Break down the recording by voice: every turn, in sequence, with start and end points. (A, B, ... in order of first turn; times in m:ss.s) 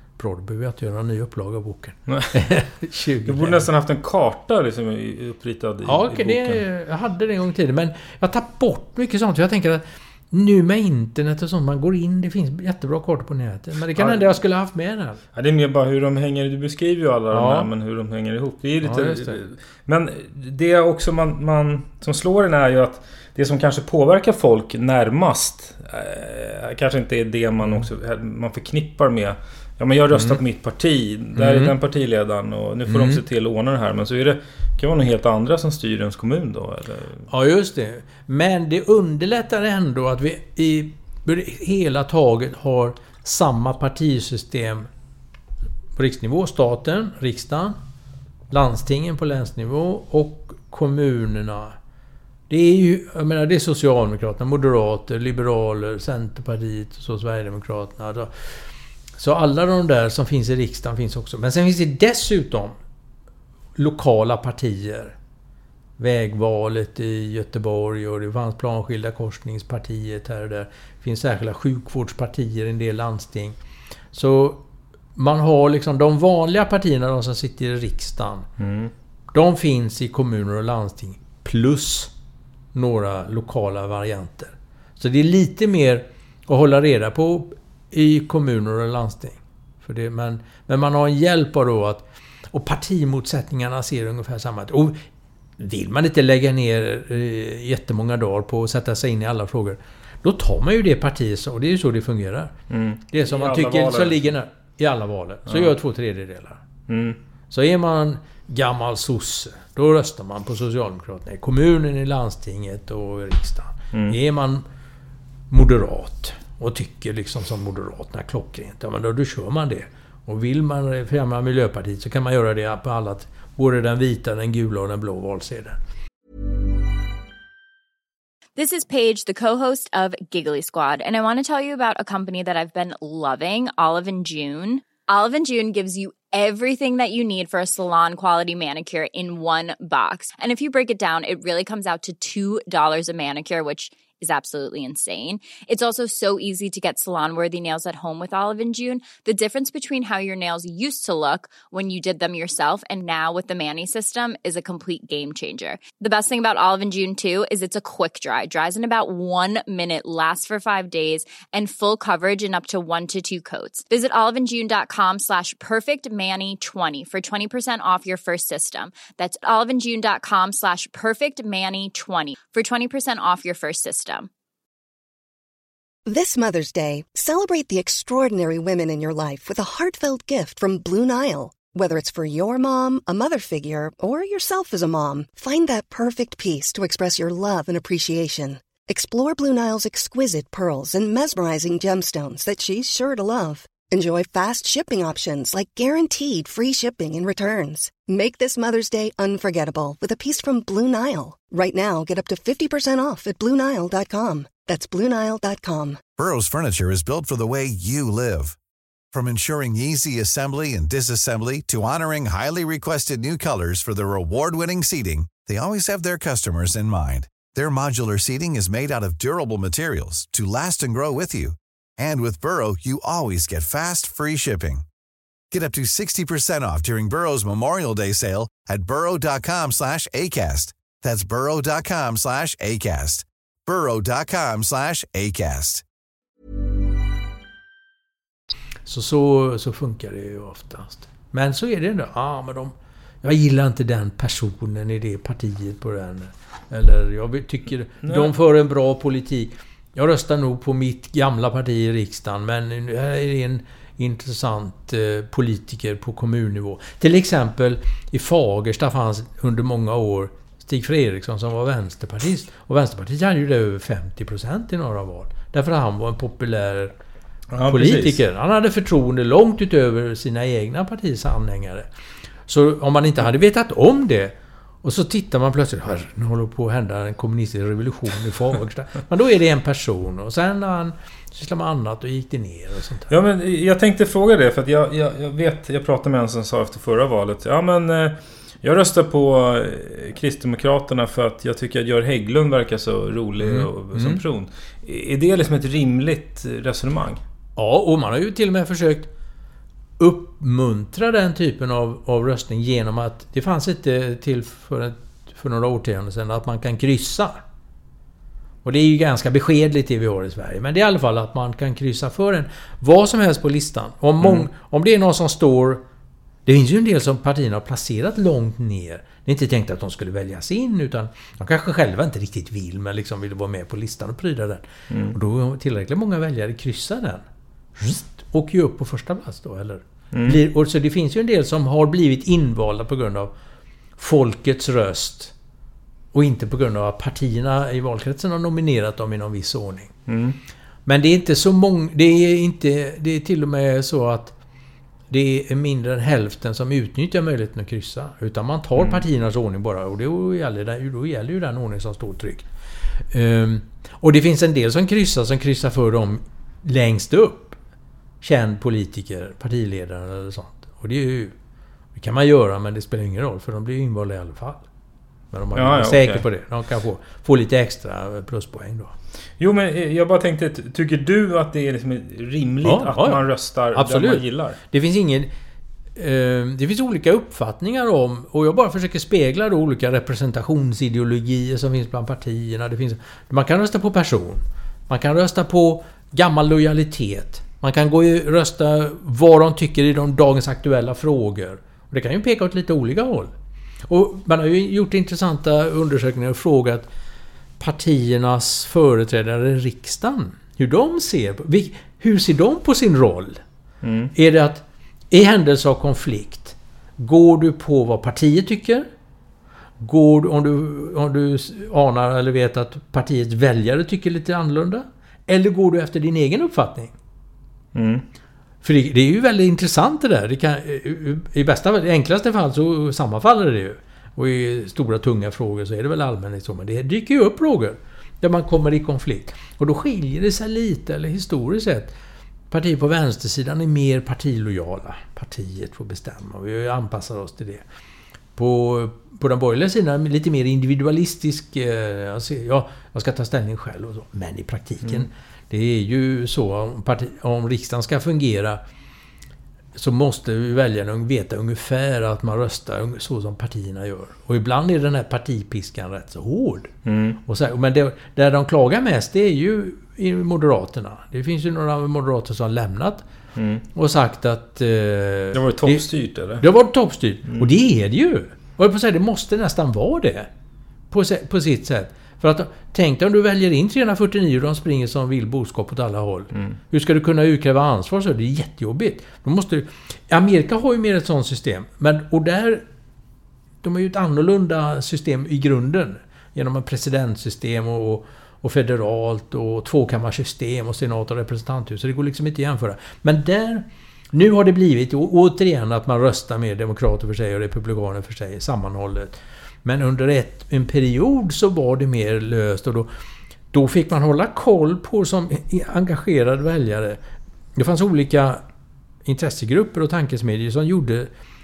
0:00.2-0:03.6 A
0:02.1-0:02.4 B
0:03.2-0:06.6 B
0:05.8-0:15.2 A
0:13.9-0:14.3 B
0:15.3-0:37.2 B
0:17.3-0:17.7 A
0:18.8-0:19.4 A
0:30.1-0:30.4 A
0:31.4-0:31.7 A
0:32.9-0:33.2 A
0:37.3-0:44.9 A
0:46.0-0:47.8 A
0:48.5-0:51.7 A
0:52.5-0:58.3 A
0:59.2-1:02.7 A
1:03.8-1:05.1 A
1:06.0-1:13.6 A
1:14.1-1:14.6 A
1:15.2-1:18.4 A
1:18.6-1:18.9 B
1:19.3-1:22.1 A
1:22.7-1:35.0 A
1:35.6-1:42.5 A
1:42.7-1:44.2 B
1:43.1-1:46.6 A
1:45.5-1:45.7 B
1:46.9-1:47.2 B
1:47.5-1:54.6 A
1:55.5-2:05.8 A
2:08.6-2:54.3 C
2:56.0-3:26.1 D
3:26.2-3:28.6 E
3:29.1-3:44.8 E
3:45.5-3:55.8 E
3:58.8-4:26.9 A
4:08.0-4:08.3 B
4:27.5-4:28.2 B
4:27.6-4:31.9 A
4:32.5-4:43.1 A
4:43.1-4:57.2 B
4:53.4-4:54.2 A
4:57.6-4:59.1 A
5:00.0-5:07.4 A
5:08.6-5:15.8 A
5:14.2-5:14.4 B
5:16.4-5:27.2 A
5:24.9-5:25.2 B
5:27.8-5:33.3 A
5:30.1-5:30.4 B
5:34.0-5:35.3 A
5:36.1-5:39.9 A
5:40.1-5:40.4 B
5:40.8-5:44.3 A
5:45.1-5:52.5 A
5:53.1-5:57.6 A
5:58.2-6:01.3 A
6:01.9-6:04.6 A
6:05.3-6:08.9 A
6:05.5-6:06.2 B
6:09.4-6:14.6 B
6:12.6-6:15.3 A
6:16.0-6:33.3 A
6:33.9-6:36.9 A
6:37.6-6:43.4 A
6:43.8-6:44.1 B
6:44.1-6:48.9 A
6:49.8-6:56.9 A
6:57.7-6:58.0 B
6:58.6-7:11.9 A
7:12.5-7:17.6 A
7:18.4-7:28.6 A
7:29.7-7:36.7 A
7:36.8-7:37.2 B
7:37.2-7:43.0 A
7:43.4-7:43.6 B
7:43.7-7:45.8 A
7:45.3-7:46.4 B
7:46.4-7:50.3 A
7:50.9-8:02.6 A
8:03.6-8:22.9 A
8:23.5-8:27.0 A
8:27.6-8:28.4 A
8:29.0-8:31.1 A